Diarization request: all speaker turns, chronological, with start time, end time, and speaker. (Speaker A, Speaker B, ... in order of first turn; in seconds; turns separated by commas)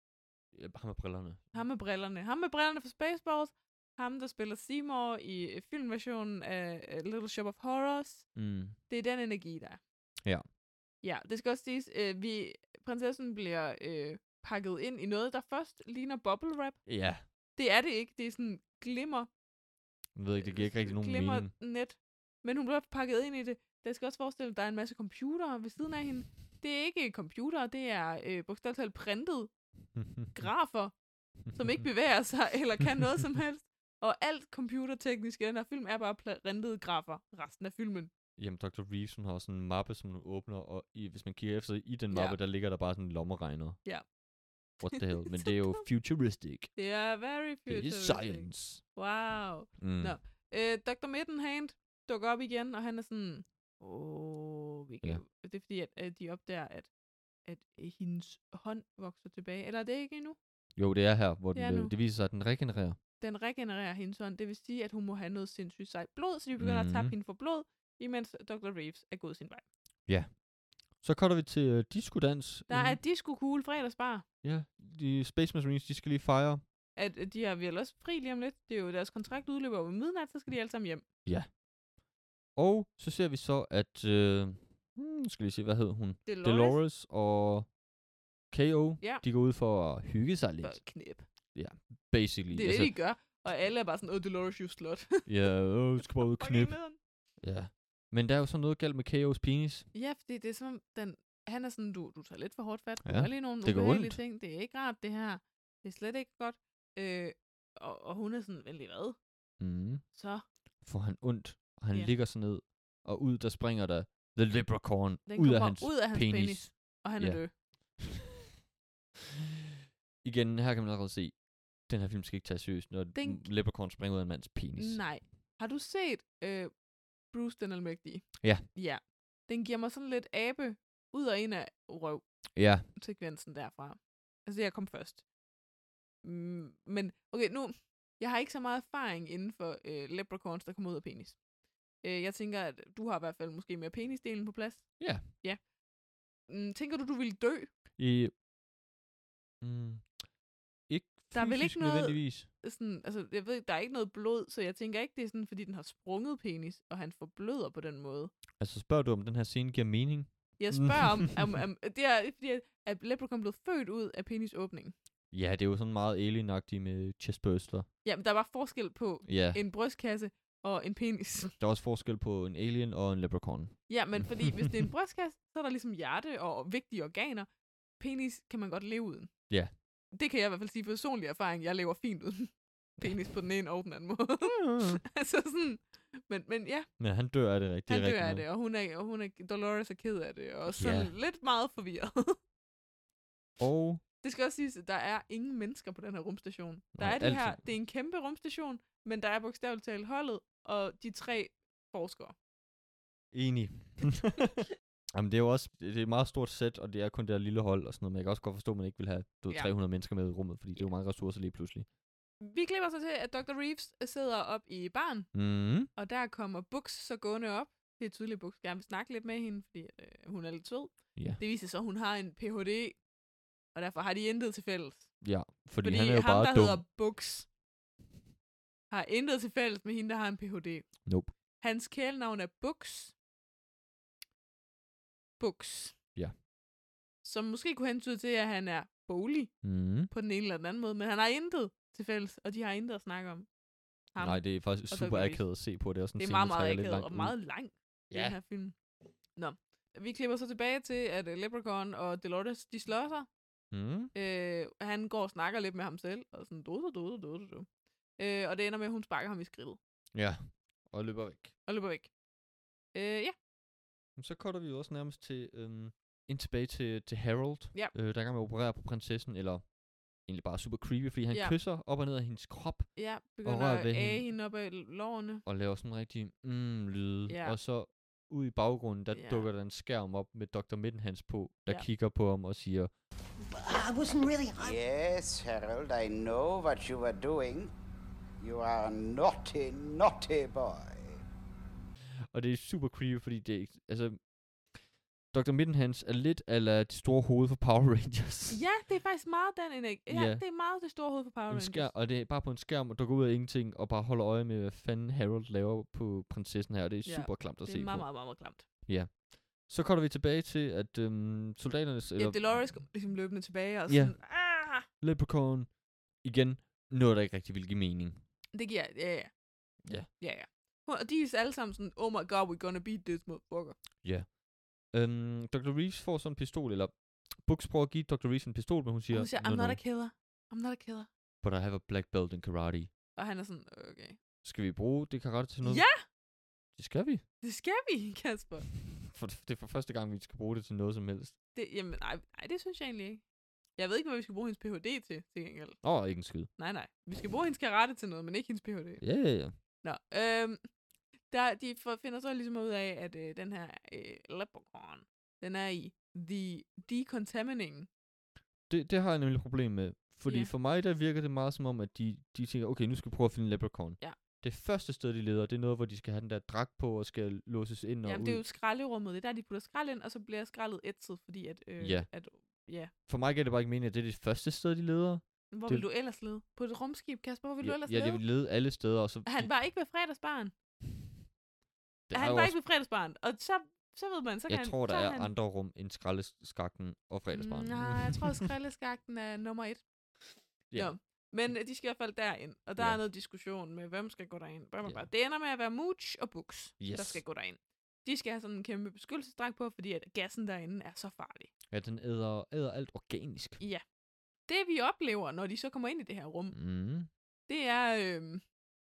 Speaker A: 0.5-1.6, Speaker B: 1.5-9.8, Speaker A: 8.3-8.8, Speaker B: 11.0-19.3, Speaker A: 16.9-17.2, Speaker A: 20.1-21.5, Speaker B: 20.4-29.5, Speaker A: 30.0-30.3, Speaker B: 30.3-30.9, Speaker B: 31.5-38.1, Speaker A: 38.4-43.8, Speaker B: 42.1-42.4, Speaker A: 44.8-46.8, Speaker B: 44.9-45.9, Speaker B: 46.8-56.9, Speaker A: 47.7-48.8, Speaker A: 49.8-50.2, Speaker B: 57.4-60.4, Speaker A: 60.8-63.0, Speaker B: 61.5-61.9, Speaker B: 63.2-69.6, Speaker A: 66.6-67.1, Speaker A: 70.0-70.4, Speaker A: 70.9-73.0, Speaker B: 72.7-74.2, Speaker A: 74.4-76.6, Speaker B: 77.0-81.0, Speaker A: 82.5-87.7, Speaker B: 86.2-86.8, Speaker A: 88.5-91.0, Speaker B: 90.6-91.2, Speaker A: 91.5-93.0, Speaker B: 92.5-95.3, Speaker A: 95.2-96.8, Speaker B: 96.0-97.0, Speaker A: 97.4-99.9, Speaker B: 99.9-109.2, Speaker A: 103.0-104.2, Speaker A: 109.6-110.0, Speaker B: 110.1-110.4, Speaker A: 110.8-118.2, Speaker B: 115.3-118.0, Speaker A: 120.2-125.1, Speaker B: 123.1-123.5, Speaker B: 124.8-126.7, Speaker B: 127.3-135.2, Speaker A: 132.5-132.9, Speaker B: 136.2-141.4, Speaker B: 142.0-145.7, Speaker A: 145.0-145.3, Speaker B: 146.5-147.7, Speaker A: 148.0-148.3, Speaker A: 149.6-150.2, Speaker A: 150.9-152.5, Speaker B: 151.3-158.3, Speaker A: 158.6-161.4, Speaker B: 160.6-164.9, Speaker A: 165.3-167.9, Speaker B: 168.0-171.5, Speaker A: 169.2-169.6, Speaker A: 171.6-174.9, Speaker B: 173.9-179.5, Speaker B: 180.1-186.9, Speaker A: 184.4-185.0, Speaker A: 187.0-188.4, Speaker B: 187.9-192.4, Speaker A: 190.7-191.1, Speaker A: 193.6-194.0, Speaker B: 194.2-202.3, Speaker A: 196.9-197.6, Speaker A: 203.3-204.6, Speaker A: 205.1-211.8, Speaker B: 212.4-215.3, Speaker A: 215.3-215.9, Speaker B: 215.9-223.0, Speaker A: 221.1-221.4, Speaker B: 223.7-225.2, Speaker A: 225.2-226.8, Speaker B: 225.8-227.5, Speaker B: 228.9-233.1, Speaker A: 231.1-231.3, Speaker B: 235.4-236.0, Speaker B: 237.2-243.5, Speaker A: 239.6-240.1, Speaker B: 244.1-248.8, Speaker A: 244.2-247.4, Speaker A: 248.1-248.4, Speaker B: 249.4-253.3, Speaker A: 253.7-254.1, Speaker B: 254.1-257.7, Speaker B: 258.2-259.8, Speaker A: 260.1-261.5, Speaker B: 261.6-262.1, Speaker B: 262.9-263.3, Speaker A: 264.1-274.3, Speaker B: 271.3-271.6, Speaker B: 272.9-275.4, Speaker A: 275.4-282.9, Speaker B: 277.3-277.6, Speaker B: 279.1-279.5, Speaker C: 284.5-287.7, Speaker C: 288.4-291.2, Speaker A: 292.3-294.2, Speaker A: 295.3-298.6, Speaker B: 298.5-301.9, Speaker A: 300.1-300.4, Speaker A: 301.5-312.9, Speaker B: 307.0-308.6, Speaker B: 312.2-314.9, Speaker A: 313.9-318.2, Speaker B: 318.5-319.4, Speaker A: 319.8-320.1, Speaker B: 319.9-323.8, Speaker A: 324.0-329.8, Speaker B: 329.1-331.1, Speaker A: 331.4-332.9, Speaker B: 333.1-334.2, Speaker A: 334.4-335.9, Speaker B: 335.6-336.0, Speaker A: 336.8-337.2, Speaker B: 337.4-338.7, Speaker A: 339.0-341.3, Speaker B: 341.5-343.2, Speaker B: 343.8-345.8, Speaker A: 345.8-346.5, Speaker B: 346.6-349.0, Speaker A: 349.0-349.5, Speaker B: 349.7-350.6, Speaker B: 351.3-357.9, Speaker A: 358.7-368.4, Speaker B: 360.2-360.5, Speaker B: 368.0-372.9, Speaker A: 371.8-372.1, Speaker A: 373.1-375.9, Speaker B: 375.5-378.2, Speaker A: 377.6-379.5, Speaker B: 379.2-380.5, Speaker A: 382.1-382.6, Speaker B: 382.1-385.3, Speaker A: 384.5-388.5, Speaker B: 387.3-389.8, Speaker B: 390.7-401.5, Speaker A: 396.8-397.2, Speaker A: 401.7-403.6, Speaker B: 404.5-406.6, Speaker A: 406.5-407.1, Speaker B: 407.5-408.4